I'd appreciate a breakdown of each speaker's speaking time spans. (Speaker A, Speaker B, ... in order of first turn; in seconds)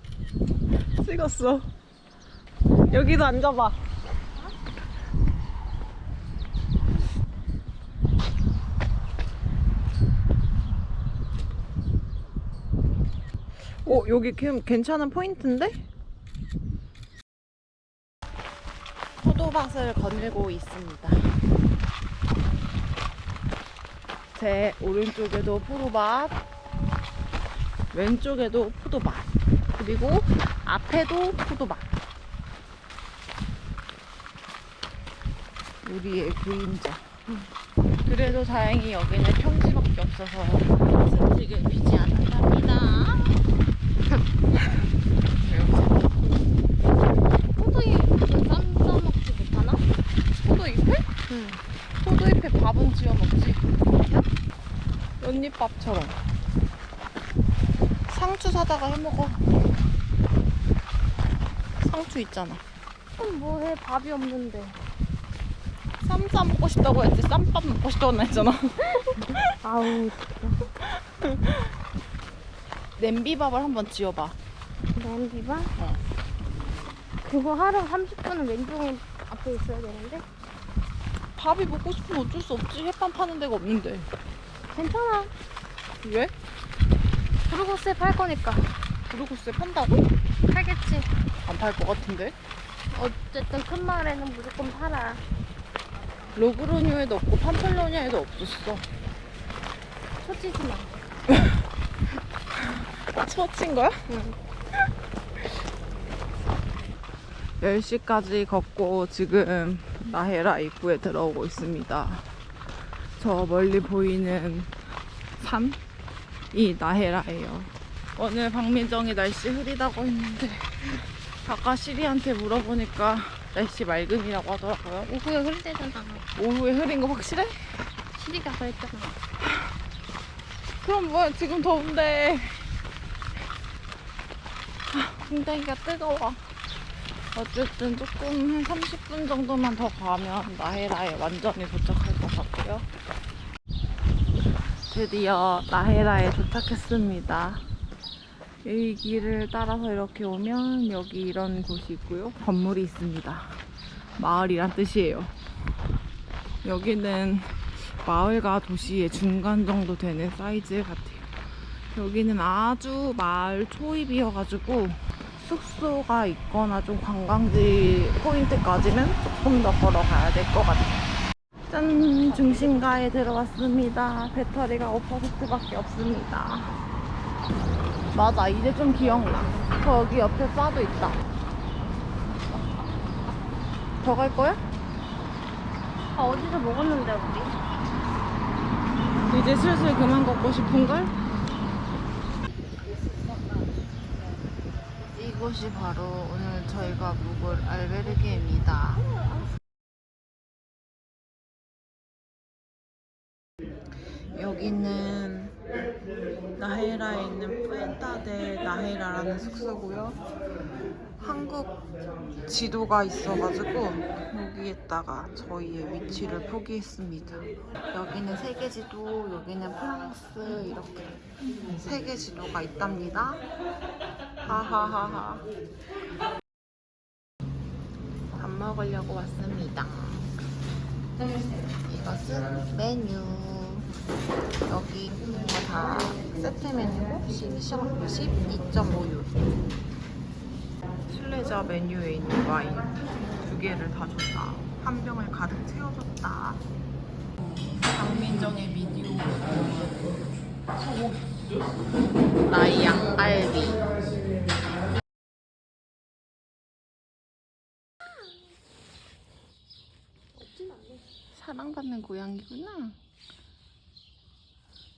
Speaker A: 1.0-1.7, 2.9-3.8, 13.7-15.9, 19.2-21.4, 24.4-26.4, 27.9-31.9, 35.8-37.0, 38.0-43.4, 45.4-46.1, 50.4-51.1, 51.9-54.2, 55.2-56.2, 58.1-59.5, 61.8-62.6, 66.0-69.5, 71.2-71.6, 73.0-74.4, 81.4-84.1, 86.0-86.3, 89.1-90.1, 91.5-92.3, 96.3-98.8, 103.0-104.0, 107.6-112.3, 113.2-114.8, 115.4-115.8, 116.5-125.1, 126.4-127.8, 130.8-132.7, 134.9-136.4, 137.3-142.9, 144.9-147.6, 148.6-153.6, 154.2-155.3, 156.6-161.3, 161.9-171.0, 171.7-176.8, 178.1-181.2, 184.0-184.6, 189.3-191.1, 195.1-199.1, 204.3-205.6, 206.6-210.2, 211.2-211.8, 212.5-223.4, 224.4-225.5, 228.3-230.3, 231.8-233.9, 234.7-239.4, 241.1-246.6, 247.8-250.1, 252.5-253.9, 261.3-263.0
Speaker B: 47.6-49.8, 51.3-51.6, 63.2-64.8, 69.6-70.7, 75.0-75.7, 77.2-80.2, 84.7-85.3, 87.5-88.7, 90.5-91.1, 92.9-95.2, 100.2-101.0, 104.1-104.4, 125.1-126.2, 128.2-129.2, 186.2-187.6, 260.5-260.9